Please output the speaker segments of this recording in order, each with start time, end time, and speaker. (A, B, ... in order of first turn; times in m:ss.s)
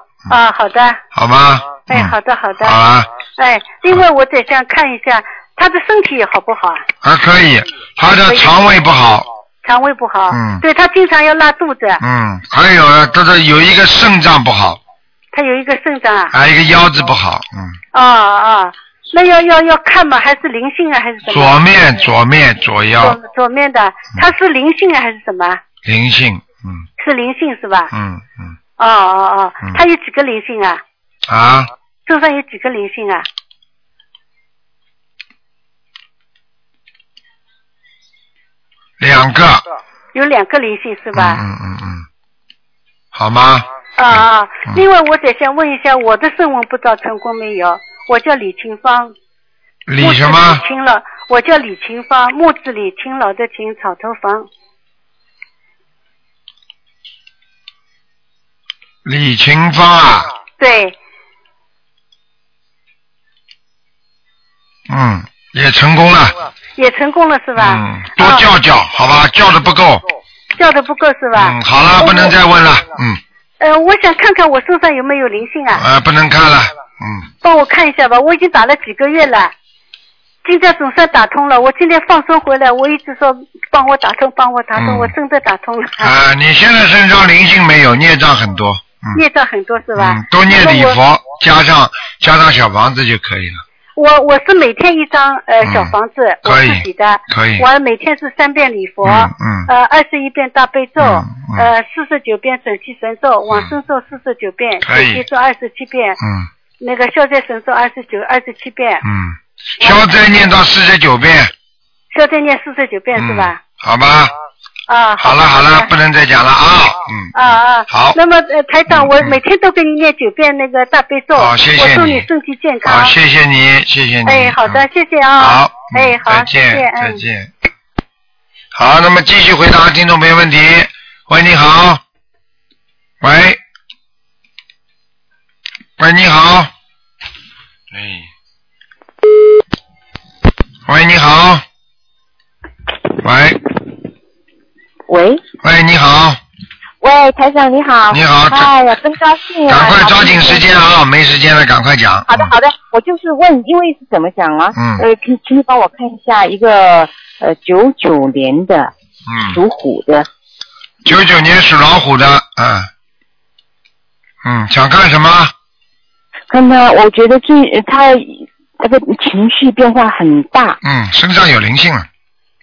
0:00.3-0:01.0 A
0:01.1-0:03.1 B
0:01.9-0:02.8 A
0:03.4-0:06.8 A
0:07.0-0:09.3 B
0:08.2-0:08.6 A
0:09.6-0:12.0 A
0:10.3-0:10.6 B
0:12.0-0:14.8 B
0:15.3-0:16.3 A
0:16.3-0:17.8 B
0:17.9-0:21.6 A
0:21.3-0:23.2 B
0:23.0-0:25.6 A
0:25.8-0:26.8 B
0:27.0-0:27.9 A
0:27.9-0:28.6 B
0:28.8-0:30.8 A
0:31.3-0:31.7 B
0:32.0-0:33.2 A
0:39.0-0:39.6 B
0:40.1-0:41.4 A
0:41.1-0:42.0 B
0:43.1-0:44.8 B
0:44.0-0:49.1 A
0:49.9-0:50.6 B
0:50.0-0:54.5 A
0:59.0-1:00.3 B
1:00.6-1:01.0 A
1:04.9-1:06.4 B
1:06.8-1:08.4 A
1:07.6-1:10.0 B
1:10.6-1:12.4 A
1:11.3-1:13.2 B
1:13.6-1:15.8 A
1:15.8-1:17.2 B
1:17.4-1:19.5 A
1:20.4-1:26.1 A
1:24.8-1:25.1 B
1:26.0-1:29.2 B
1:29.1-1:31.0 A
1:29.9-1:33.6 B
1:34.0-1:46.2 A
1:35.6-1:35.9 B
1:36.4-1:37.7 B
1:39.0-1:39.7 B
1:41.0-1:41.7 B
1:44.8-1:45.2 B
1:46.2-1:46.5 B
1:46.8-1:49.0 A
1:49.0-1:51.5 B
1:49.8-1:50.2 A
1:52.1-1:53.6 A
1:53.2-1:54.3 B
1:54.9-1:55.9 A
1:55.2-1:57.3 B
1:57.3-2:03.1 A
1:57.9-1:58.2 B
1:58.9-1:59.4 B
2:01.3-2:02.3 B
2:02.8-2:04.8 B
2:04.2-2:07.2 A
2:05.4-2:07.5 B
2:08.7-2:12.0 B
2:13.2-2:13.6 B
2:16.0-2:16.7 B
2:17.9-2:18.3 B
2:20.8-2:21.6 B
2:23.2-2:23.6 B
2:25.1-2:25.4 C
2:25.6-2:26.4 B
2:27.0-2:30.7 C
2:28.1-2:28.9 B
2:29.6-2:32.5 B
2:32.3-2:38.9 C
2:34.7-2:35.0 B
2:39.2-2:39.6 B
2:39.5-2:40.3 C
2:41.0-2:42.9 B
2:44.4-2:45.5 B
2:46.5-2:50.8 C
2:50.8-2:52.1 B